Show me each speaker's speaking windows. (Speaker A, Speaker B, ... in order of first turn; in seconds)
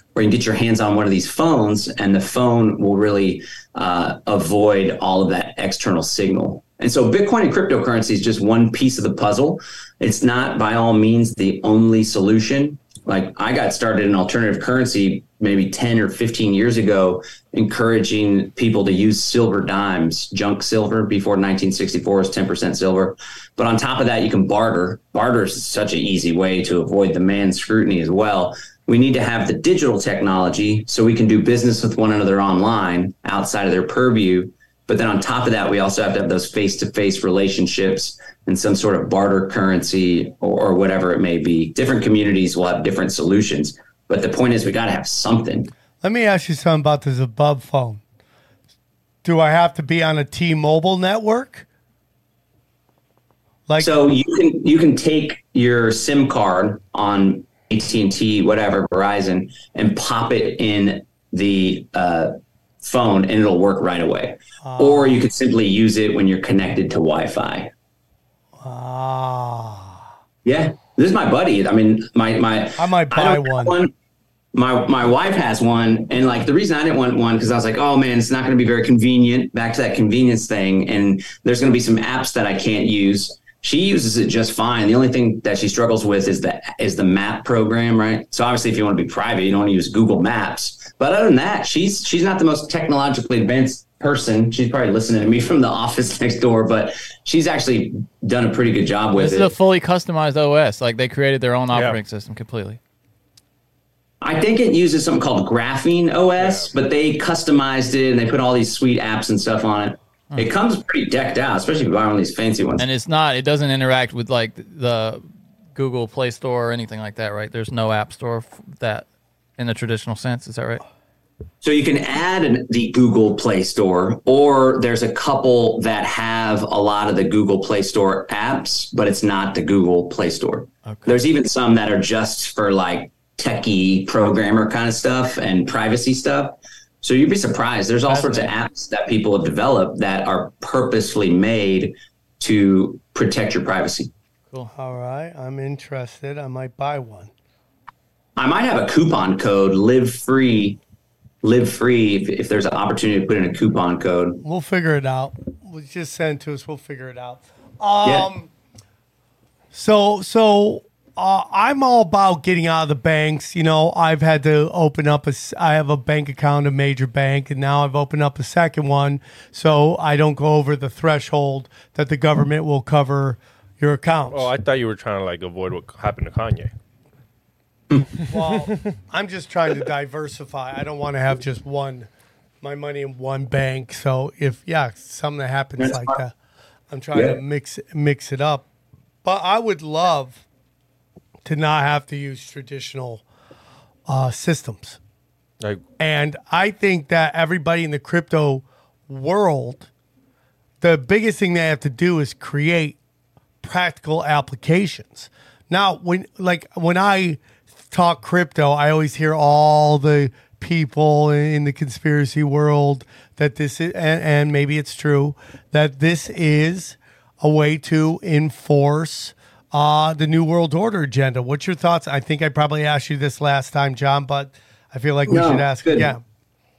Speaker A: 0.1-45.7, 53.8-67.7, 70.4-73.9, 74.5-99.5, 104.2-112.8, 121.6-144.1, 148.4-150.8, 151.4-154.4, 185.8-186.2, 225.3-226.2
Speaker B: 46.0-48.0, 49.2-51.7, 64.6-65.2, 68.6-70.1, 72.8-73.8, 144.8-147.3, 154.4-158.5, 159.7-174.5, 178.2-182.1, 182.6-186.3, 186.9-188.7, 189.2-190.4, 191.4-193.2, 194.1-195.0, 196.0-199.9, 200.8-203.0, 203.6-226.2
Speaker C: 99.1-102.8, 112.8-120.8, 130.9-131.1, 138.1-138.5
Speaker D: 101.7-102.0, 106.4-106.7, 174.3-176.7